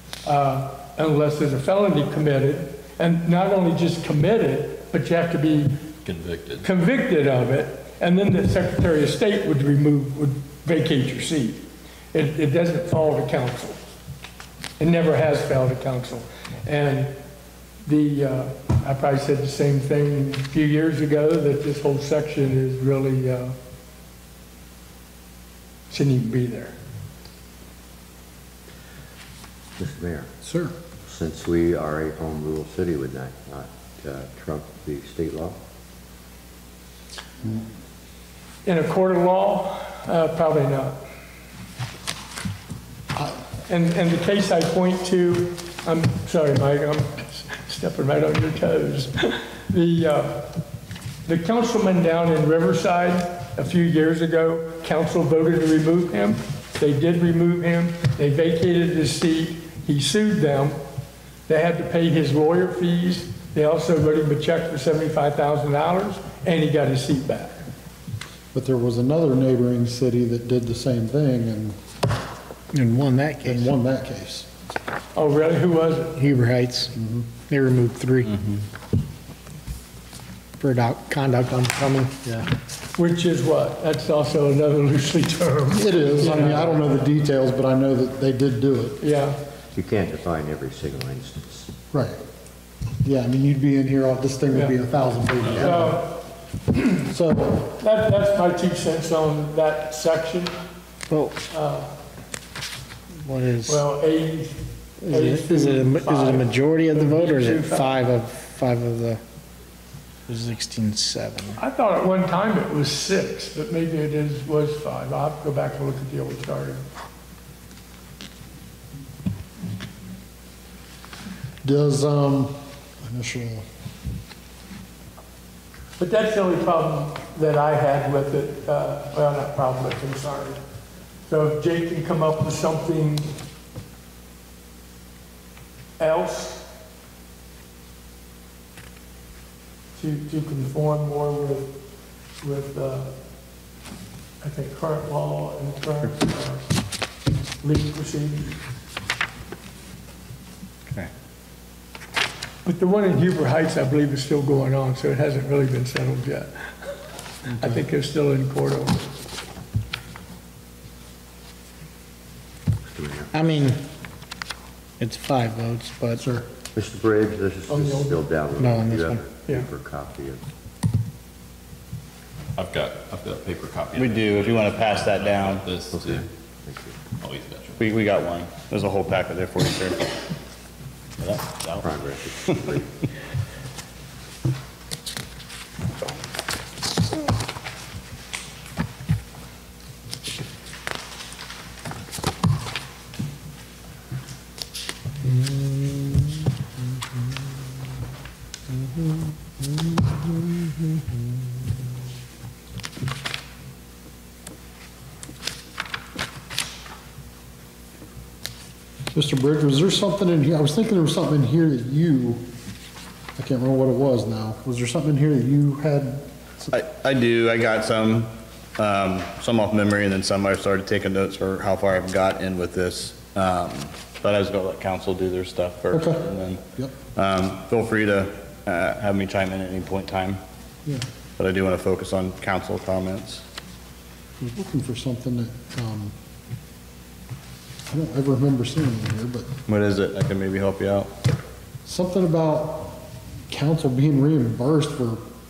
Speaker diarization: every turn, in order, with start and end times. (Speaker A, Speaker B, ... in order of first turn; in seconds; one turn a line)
Speaker A: 0.2-5.8
Speaker B: 6.0-6.7
Speaker A: 6.6-11.6
Speaker A: 12.1-13.8
Speaker A: 14.8-17.2
Speaker A: 17.8-23.6
Speaker A: 25.9-26.8
Speaker C: 29.8-30.3
Speaker D: 30.4-30.8
Speaker C: 31.0-35.6
Speaker A: 38.6-41.0
Speaker A: 43.7-50.5
Speaker A: 51.3-60.8
Speaker A: 61.5-67.6
Speaker D: 68.5-71.8
Speaker E: 72.7-73.7
Speaker D: 73.5-74.5
Speaker A: 75.2-76.2
Speaker E: 76.2-78.4
Speaker D: 76.9-77.3
Speaker E: 80.6-82.2
Speaker D: 82.2-82.5
Speaker A: 83.0-87.0
Speaker D: 85.7-89.0
Speaker A: 89.0-89.4
Speaker C: 89.8-91.7
Speaker D: 91.9-92.2
Speaker D: 93.0-96.0
Speaker A: 95.6-96.2
Speaker D: 97.1-97.7
Speaker A: 97.8-100.6
Speaker E: 101.1-101.4
Speaker A: 101.5-102.0
Speaker E: 103.2-103.8
Speaker A: 103.7-108.0
Speaker E: 105.0-109.2
Speaker E: 110.3-111.6
Speaker A: 111.6-116.8
Speaker D: 121.6-123.7
Speaker A: 126.0-130.6
Speaker A: 131.3-133.3
Speaker A: 136.0-136.7
Speaker A: 140.0-141.8
Speaker A: 142.4-143.2
Speaker A: 144.4-146.7
Speaker A: 147.6-148.6
Speaker A: 152.7-157.0
Speaker D: 157.5-157.8
Speaker A: 157.6-159.1
Speaker C: 162.9-163.3
Speaker E: 163.3-163.8
Speaker E: 165.0-166.3
Speaker D: 166.2-166.5
Speaker C: 166.8-170.4
Speaker A: 167.7-168.1
Speaker E: 168.6-169.2
Speaker B: 172.6-176.3
Speaker F: 174.0-175.7
Speaker C: 175.9-176.9
Speaker B: 177.2-177.8
Speaker F: 177.8-180.1
Speaker F: 181.2-181.8
Speaker C: 181.8-182.9
Speaker F: 182.5-182.8
Speaker D: 209.1-212.5
Speaker D: 213.4-216.7
Speaker F: 216.7-226.6
Speaker D: 225.9-226.9
Speaker F: 227.2-230.4
Speaker F: 231.4-233.4
Speaker D: 234.4-236.2
Speaker D: 237.9-239.5
Speaker F: 239.7-241.1
Speaker D: 241.8-245.2